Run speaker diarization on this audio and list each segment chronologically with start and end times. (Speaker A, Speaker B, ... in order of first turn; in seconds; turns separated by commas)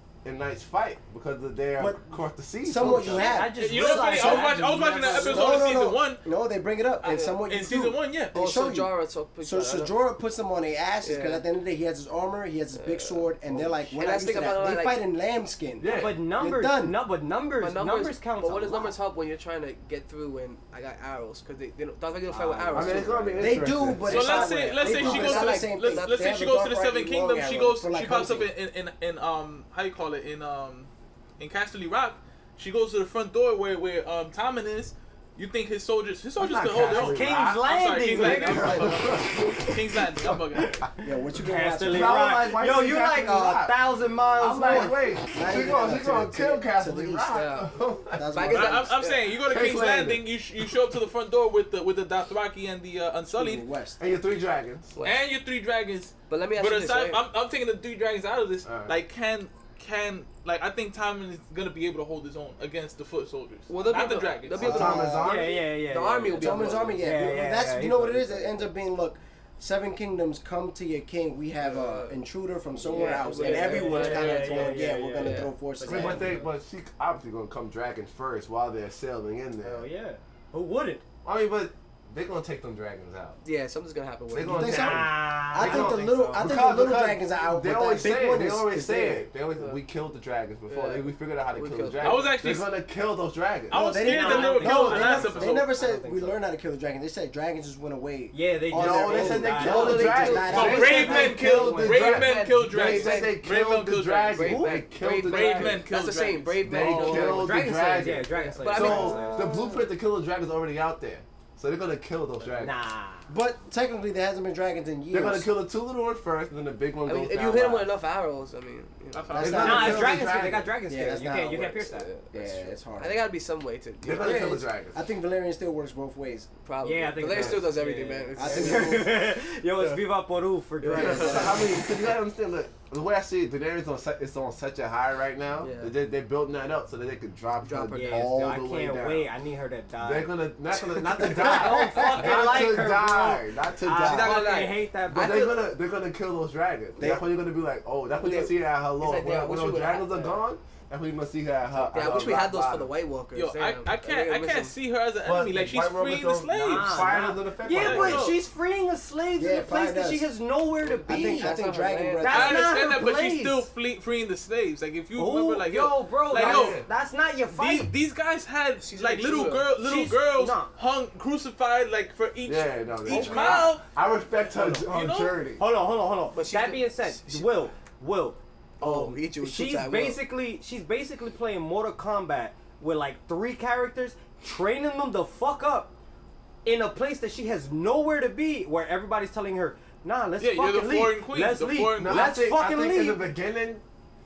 Speaker A: 0.2-3.3, Speaker B: 2.6-17.0, Speaker C: 3.0-5.6, Speaker D: 3.5-6.2, Speaker E: 7.0-7.4, Speaker D: 7.0-8.3, Speaker E: 8.3-9.9, Speaker E: 11.0-11.4, Speaker E: 12.7-13.3, Speaker A: 13.5-13.9, Speaker E: 13.9-15.0, Speaker A: 15.8-16.2, Speaker C: 15.9-18.9, Speaker E: 17.6-26.4, Speaker C: 22.3-23.4, Speaker A: 22.7-24.3, Speaker B: 23.4-28.5, Speaker D: 24.0-40.9, Speaker A: 36.4-40.9, Speaker C: 36.9-39.0, Speaker C: 40.5-40.8, Speaker B: 41.0-42.2, Speaker C: 41.4-44.9, Speaker A: 41.8-48.6, Speaker B: 44.6-47.6, Speaker E: 47.3-47.7, Speaker B: 48.1-48.9, Speaker E: 48.3-49.3, Speaker D: 48.5-53.7, Speaker A: 49.4-50.8, Speaker B: 53.2-54.1, Speaker A: 54.0-54.9, Speaker E: 55.0-55.2, Speaker D: 55.0-64.7, Speaker E: 56.3-57.2, Speaker A: 58.6-58.9, Speaker E: 63.7-67.2, Speaker B: 64.5-65.4, Speaker A: 64.5-65.6, Speaker C: 65.2-68.7, Speaker B: 66.3-76.3, Speaker E: 71.6-72.2, Speaker E: 72.8-76.3, Speaker C: 72.9-76.4, Speaker A: 75.8-79.9, Speaker C: 79.6-81.0, Speaker A: 81.2-83.4, Speaker E: 83.4-84.9, Speaker A: 84.3-93.8, Speaker B: 84.5-89.3, Speaker C: 84.6-86.5, Speaker E: 90.7-92.3, Speaker D: 92.0-92.7, Speaker D: 93.7-95.7, Speaker B: 93.7-101.7, Speaker C: 94.0-96.4, Speaker C: 98.3-102.0, Speaker A: 98.7-105.9, Speaker E: 99.6-100.8, Speaker D: 100.5-104.6, Speaker E: 101.8-103.4, Speaker E: 104.3-107.7, Speaker C: 104.4-104.8, Speaker D: 105.2-107.2, Speaker A: 106.6-112.7, Speaker C: 106.9-109.6, Speaker E: 108.3-109.6, Speaker C: 112.6-113.3, Speaker B: 113.3-115.5, Speaker A: 115.1-117.9, Speaker E: 117.0-119.9, Speaker D: 119.1-119.8, Speaker B: 119.3-123.2, Speaker A: 119.4-120.7, Speaker C: 119.5-122.1, Speaker E: 121.6-124.6, Speaker A: 124.0-125.0, Speaker B: 124.2-126.5, Speaker E: 126.6-129.2, Speaker C: 126.8-131.5, Speaker A: 127.2-127.7, Speaker B: 128.3-129.1, Speaker E: 130.8-131.6, Speaker A: 130.9-139.3, Speaker B: 130.9-131.6, Speaker E: 135.6-135.9, Speaker E: 137.6-138.3, Speaker C: 137.9-145.5, Speaker A: 140.0-152.9, Speaker B: 141.5-142.2, Speaker E: 144.0-145.7, Speaker B: 147.0-147.2, Speaker E: 148.2-150.4, Speaker E: 151.9-154.7, Speaker D: 153.3-157.2, Speaker A: 155.2-158.3, Speaker C: 156.6-161.6, Speaker D: 157.7-158.4, Speaker B: 159.3-160.3, Speaker E: 160.8-162.5, Speaker B: 161.1-162.8, Speaker C: 162.2-163.7, Speaker D: 162.3-166.8, Speaker C: 165.1-167.9, Speaker A: 166.3-166.9, Speaker D: 167.5-173.8, Speaker E: 168.8-169.7, Speaker C: 169.8-170.7, Speaker A: 172.4-175.6, Speaker C: 173.1-173.7, Speaker E: 173.1-173.6, Speaker C: 174.5-174.8, Speaker D: 174.6-175.3, Speaker C: 175.6-185.9, Speaker E: 176.3-177.6, Speaker E: 178.8-180.2, Speaker C: 186.6-193.2, Speaker D: 190.4-192.4, Speaker A: 192.0-193.8